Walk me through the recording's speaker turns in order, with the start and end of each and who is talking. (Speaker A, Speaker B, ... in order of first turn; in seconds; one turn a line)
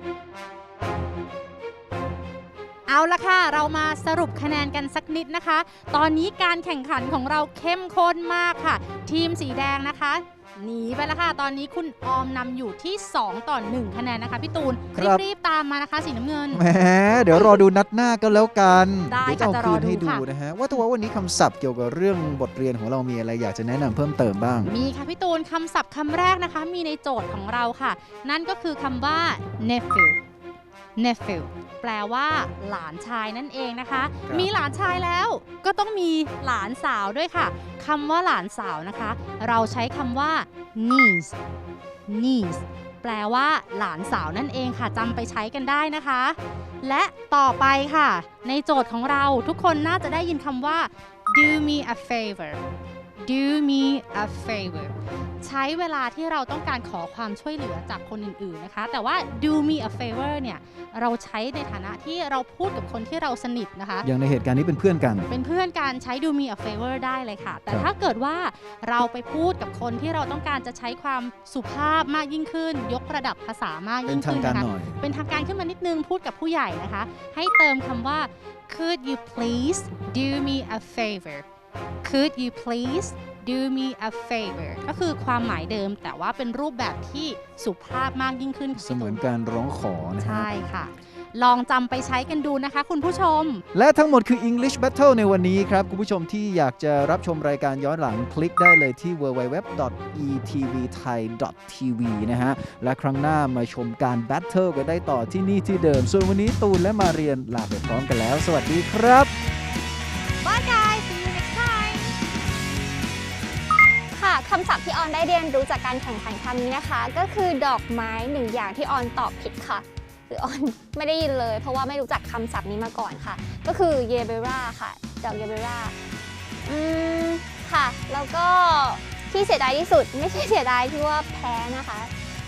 Speaker A: 2.9-16.6
Speaker B: 14.9-15.2
Speaker B: 16.5-24.7
Speaker A: 19.1-20.2
Speaker A: 24.6-30.2
Speaker A: 30.9-41.4
Speaker A: 42.1-52.6
Speaker A: 53.2-64.0
Speaker B: 64.0-65.3
Speaker A: 65.3-81.4
Speaker B: 74.0-75.0
Speaker A: 82.0-89.2
Speaker B: 88.8-90.5
Speaker A: 90.2-93.6
Speaker B: 93.7-109.3
Speaker A: 110.4-112.1
Speaker C: 114.1-125.9
Speaker C: 126.7-132.1